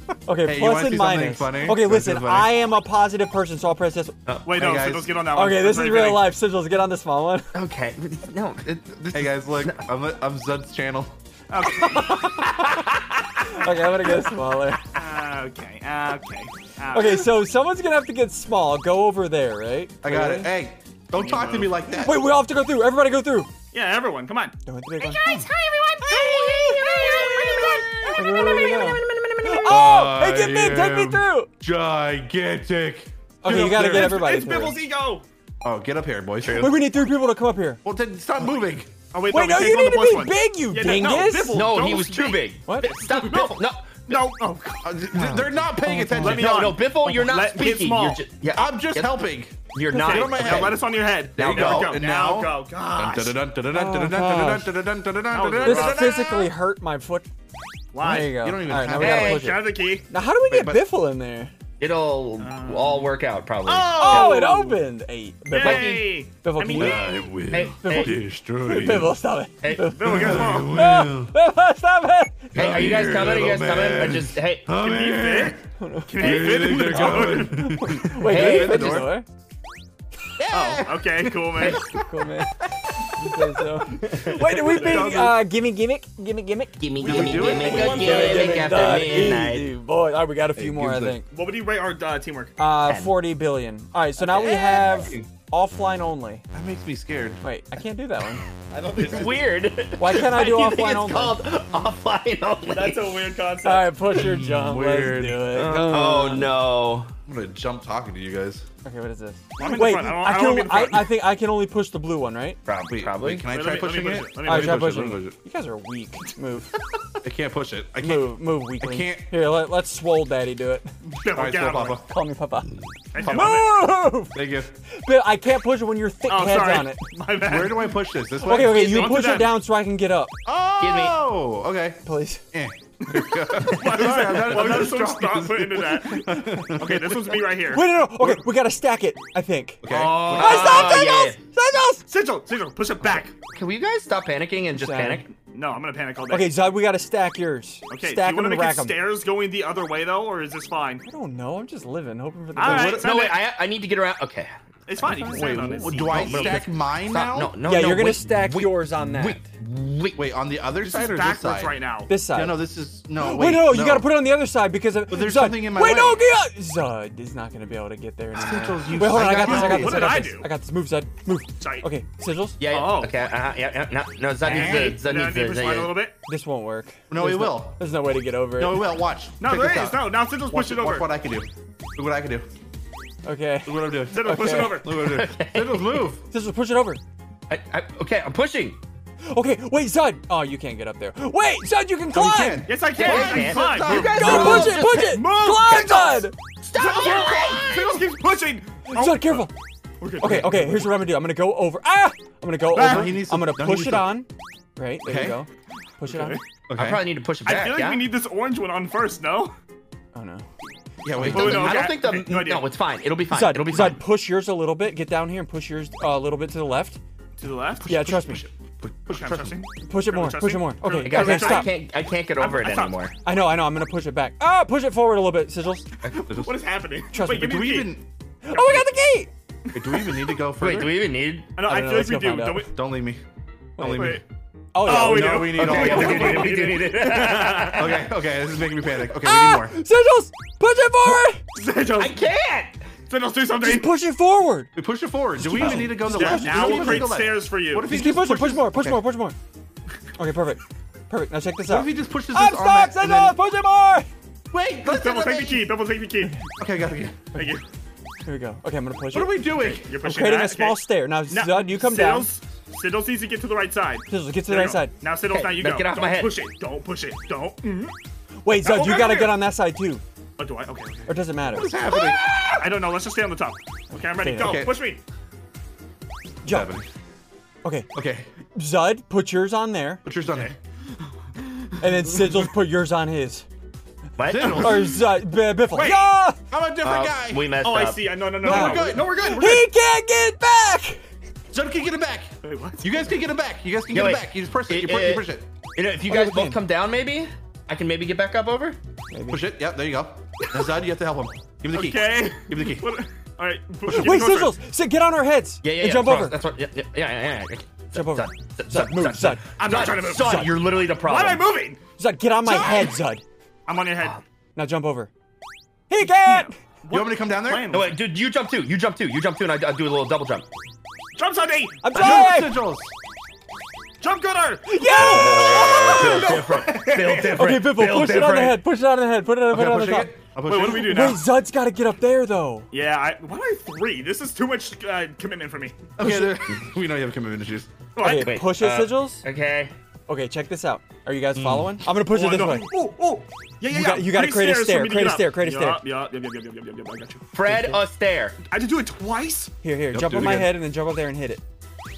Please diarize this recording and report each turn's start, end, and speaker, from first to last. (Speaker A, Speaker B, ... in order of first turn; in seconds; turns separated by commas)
Speaker A: 0.2-4.1, Speaker B: 0.4-2.5, Speaker C: 4.4-6.3, Speaker B: 4.5-5.2, Speaker A: 5.3-7.5, Speaker D: 7.5-9.9, Speaker B: 9.0-11.1, Speaker C: 11.5-12.2, Speaker A: 11.8-12.7, Speaker A: 13.5-14.8, Speaker C: 14.9-17.4, Speaker A: 16.9-20.5, Speaker B: 20.0-22.3, Speaker C: 21.1-21.8, Speaker A: 21.9-23.5, Speaker C: 23.7-24.5, Speaker A: 24.6-25.4, Speaker D: 25.0-29.8, Speaker C: 25.2-25.5, Speaker C: 26.1-28.2, Speaker A: 28.1-31.5, Speaker B: 29.6-34.2, Speaker A: 33.4-34.8, Speaker C: 33.4-35.2, Speaker B: 35.6-36.8, Speaker D: 36.4-36.8, Speaker A: 36.5-37.8, Speaker B: 37.8-38.9, Speaker C: 39.1-44.9, Speaker A: 39.3-41.6, Speaker D: 41.5-44.0, Speaker B: 44.8-46.5, Speaker A: 45.1-46.4, Speaker C: 46.2-48.2, Speaker D: 46.3-50.8, Speaker B: 48.5-56.5, Speaker A: 49.9-50.3, Speaker C: 50.1-53.4, Speaker D: 51.4-52.0, Speaker A: 53.7-54.8, Speaker C: 55.3-56.2, Speaker A: 55.6-57.3, Speaker C: 57.9-58.4, Speaker A: 58.0-61.5, Speaker B: 58.3-59.4, Speaker D: 59.0-59.5, Speaker C: 59.2-60.0, Speaker B: 60.5-60.9, Speaker D: 61.8-64.4, Speaker C: 62.4-64.8, Speaker A: 64.0-67.1, Speaker C: 65.5-67.1, Speaker D: 65.6-66.1, Speaker B: 66.7-69.2, Speaker D: 67.5-68.2, Speaker A: 67.8-72.5, Speaker D: 69.6-69.9, Speaker C: 69.8-70.8, Speaker B: 70.0-71.3, Speaker D: 72.5-74.7, Speaker B: 72.5-75.6, Speaker C: 74.8-77.7, Speaker A: 75.8-79.2, Speaker B: 76.2-79.1, Speaker D: 78.2-79.1, Speaker B: 80.4-82.0, Speaker C: 80.5-81.8, Speaker A: 81.8-82.5, Speaker A: 83.2-91.3, Speaker B: 83.7-85.4, Speaker D: 84.1-84.7, Speaker C: 84.9-85.2, Speaker D: 86.8-89.7, Speaker B: 87.0-88.6, Speaker C: 87.1-89.4, Speaker B: 90.5-91.2, Speaker C: 91.3-92.5, Speaker A: 92.6-96.4, Speaker D: 92.8-93.2, Speaker D: 94.2-95.0, Speaker B: 94.8-95.3, Speaker B: 96.5-97.4, Speaker A: 97.4-98.4, Speaker C: 98.7-99.4, Speaker D: 99.0-103.1, Speaker A: 100.0-101.4, Speaker C: 102.7-103.9, Speaker A: 103.6-106.5, Speaker B: 104.1-105.7, Speaker D: 105.5-107.1, Speaker B: 107.2-108.6, Speaker A: 108.8-112.6, Speaker C: 109.6-111.2, Speaker D: 112.6-113.5, Speaker B: 112.9-115.3, Speaker C: 113.5-114.8, Speaker A: 114.4-116.7, Speaker B: 117.2-119.3, Speaker A: 118.0-120.9, Speaker C: 121.2-122.0, Speaker B: 121.3-122.0, Speaker A: 122.1-124.4, Speaker C: 123.1-123.7, Speaker D: 123.2-123.6, Speaker B: 124.3-124.7, Speaker A: 125.0-127.0, Speaker C: 126.3-129.6, Speaker B: 127.4-128.9, Speaker A: 128.4-130.3, Speaker B: 130.4-132.0, Speaker D: 130.8-131.2, Speaker A: 132.0-132.4, Speaker B: 132.5-137.2, Speaker C: 133.1-137.8, Speaker D: 134.2-134.6, Speaker A: 137.7-142.0, Speaker B: 138.1-138.4, Speaker B: 139.8-141.1, Speaker D: 139.9-141.4, Speaker C: 142.1-143.3, Speaker D: 143.5-145.3, Speaker A: 144.7-145.3, Speaker C: 145.4-146.7, Speaker A: 146.3-149.0, Speaker C: 147.9-151.0, Speaker A: 151.0-153.0, Speaker C: 152.6-153.5, Speaker B: 152.6-153.1, Speaker D: 153.0-154.5, Speaker C: 154.9-156.6, Speaker A: 155.0-156.1, Speaker B: 155.3-157.5, Speaker D: 156.1-160.3, Speaker A: 157.6-159.4, Speaker B: 160.1-164.2, Speaker C: 160.8-162.1, Speaker A: 162.1-172.6, Speaker B: 165.1-166.2, Speaker B: 168.3-170.1, Speaker D: 169.1-170.1, Speaker C: 169.4-170.5, Speaker C: 171.6-171.8, Speaker D: 172.6-176.0, Speaker C: 172.7-173.2, Speaker C: 174.4-176.1, Speaker B: 174.4-175.0, Speaker A: 176.3-179.0, Speaker B: 177.1-177.8, Speaker B: 178.6-182.5, Speaker C: 179.4-181.1, Speaker A: 183.2-184.8, Speaker B: 183.6-186.2, Speaker C: 184.1-185.0, Speaker D: 184.9-186.0, Speaker A: 186.3-187.0, Speaker D: 187.5-188.8, Speaker A: 189.3-192.7, Speaker B: 192.1-194.6, Speaker C: 192.7-200.9, Speaker D: 192.9-196.0, Speaker A: 194.1-196.3, Speaker D: 196.7-198.1, Speaker A: 198.9-199.5, Speaker A: 200.2-205.5, Speaker C: 202.7-203.2, Speaker B: 202.7-204.2, Speaker B: 205.0-205.4, Speaker A: 206.0-206.4, Speaker C: 206.0-206.4, Speaker B: 206.7-207.1, Speaker D: 206.8-208.1, Speaker C: 207.4-209.5, Speaker A: 210.1-210.4, Speaker B: 211.0-211.9, Speaker D: 211.2-214.0, Speaker C: 211.3-212.7, Speaker A: 213.3-217.0, Speaker C: 217.4-218.5, Speaker B: 217.8-219.6, Speaker A: 217.8-218.5, Speaker C: 219.1-221.8, Speaker A: 219.9-221.8, Speaker D: 221.0-223.1, Speaker C: 222.3-223.1, Speaker A: 223.2-225.8, Speaker D: 226.0-226.3, Speaker B: 226.2-226.6, Speaker C: 226.3-228.0, Speaker A: 227.1-227.6, Speaker B: 227.2-228.1, Speaker A: 228.4-229.3, Speaker C: 228.5-228.9, Speaker C: 229.7-230.4, Speaker B: 229.7-231.1, Speaker D: 230.6-231.5, Speaker C: 231.5-232.7, Speaker A: 231.6-232.7, Speaker B: 232.7-233.2, Speaker A: 233.8-234.2, Speaker B: 233.8-234.2, Speaker C: 233.9-234.2, Speaker A: 234.7-236.2, Speaker C: 234.8-238.0, Speaker B: 234.8-236.7, Speaker D: 235.5-238.1, Speaker B: 237.7-239.7, Speaker A: 239.2-241.4, Speaker C: 241.5-242.2, Speaker D: 242.0-242.8, Speaker C: 243.1-243.9, Speaker A: 243.6-244.7, Speaker B: 244.8-249.0, Speaker A: 245.4-247.1, Speaker C: 245.5-248.0, Speaker D: 245.5-245.9, Speaker A: 247.9-249.3, Speaker A: 250.2-254.1, Speaker B: 251.7-253.4, Speaker B: 254.5-255.7, Speaker C: 254.8-256.4, Speaker B: 256.6-257.2, Speaker C: 257.3-257.6, Speaker A: 258.2-262.3, Speaker B: 259.1-259.9, Speaker C: 259.8-267.9, Speaker A: 264.1-264.9, Speaker D: 265.3-266.4, Speaker A: 268.4-270.0, Speaker C: 268.6-269.4, Speaker C: 270.4-271.1, Speaker A: 271.1-271.8, Speaker B: 271.4-272.6, Speaker C: 272.6-275.0, Speaker A: 273.9-274.7, Speaker B: 274.4-274.8, Speaker A: 276.4-276.8, Speaker B: 276.4-276.9, Speaker B: 277.9-278.3, Speaker A: 278.5-280.0, Speaker B: 280.0-280.5, Speaker C: 280.3-280.6, Speaker A: 281.8-283.4, Speaker D: 284.2-284.7, Speaker B: 284.2-284.9, Speaker C: 284.4-284.9, Speaker A: 284.5-286.4, Speaker C: 285.7-286.1, Speaker B: 286.5-287.5, Speaker D: 286.8-288.1, Speaker C: 287.6-289.7, Speaker B: 288.4-289.1, Speaker A: 288.4-291.0, Speaker B: 291.5-295.4, Speaker C: 292.4-292.9, Speaker D: 293.9-298.8, Speaker A: 296.0-296.6, Speaker A: 299.1-299.5, Speaker B: 299.3-303.0, Speaker C: 301.7-304.6, Speaker A: 303.9-306.4, Speaker D: 305.6-311.5, Speaker A: 307.9-309.4, Speaker C: 309.6-311.8, Speaker A: 310.1-310.6, Speaker A: 312.0-313.2, Speaker C: 312.4-312.9, Speaker C: 313.6-314.2, Speaker A: 314.6-315.1, Speaker A: 315.9-316.5, Speaker C: 316.0-318.0, Speaker B: 316.9-317.7, Speaker D: 317.7-320.4, Speaker C: 321.1-321.9, Speaker A: 321.8-322.7, Speaker B: 321.9-322.9, Speaker C: 324.0-327.4, Speaker A: 324.7-330.1, Speaker D: 324.9-328.6, Speaker B: 326.0-326.8, Speaker B: 329.5-331.1, Speaker C: 330.4-331.2, Speaker A: 330.8-332.7, Speaker C: 332.7-335.8, Speaker B: 336.0-337.7, Speaker C: 337.9-338.4, Speaker A: 338.0-339.2, Speaker D: 338.1-339.7, Speaker A: 340.1-342.7, Speaker D: 341.4-341.7, Speaker C: 342.1-347.3, Speaker A: 343.7-345.8, Speaker D: 347.3-348.4, Speaker C: 348.5-349.5, Speaker A: 349.6-351.4, Speaker B: 349.9-350.6